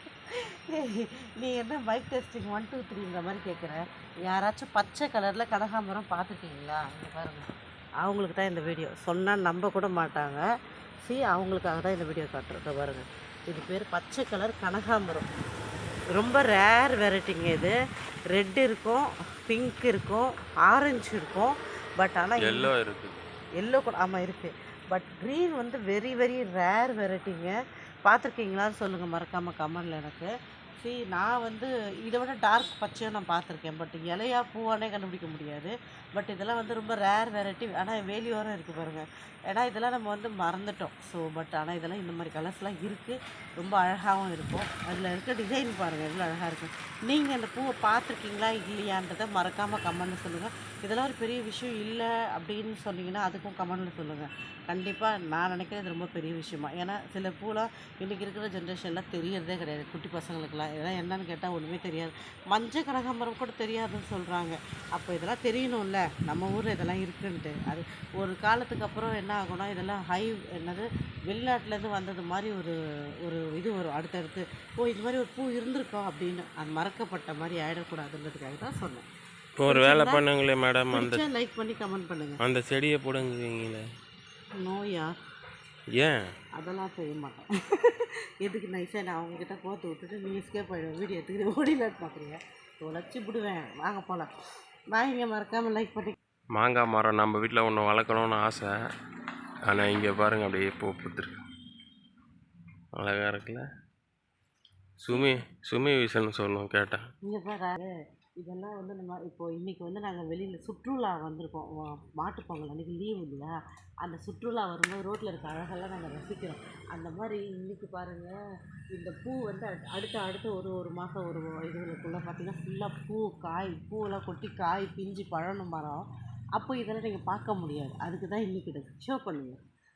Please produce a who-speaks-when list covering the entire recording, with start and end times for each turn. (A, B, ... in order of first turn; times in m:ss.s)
0:00.7-0:07.5 A
0:08.0-0:10.4 A
0:11.0-0:15.3 A
0:16.1-0:17.7 A
0:18.3-0:22.7 A
0:22.4-0:23.2 B
0:23.6-1:19.1 A
1:19.6-1:21.3 B
1:19.7-1:20.2 A
1:20.9-1:22.4 A
1:22.4-1:23.8 B
1:24.6-1:25.1 A
1:26.0-1:26.2 B
1:26.6-1:34.3 A
1:34.9-1:36.2 A
1:36.6-1:38.7 B
1:39.7-1:41.4 B
1:43.0-1:43.7 B
1:45.0-1:47.0 B
1:47.3-1:58.3 A
1:58.9-2:09.6 A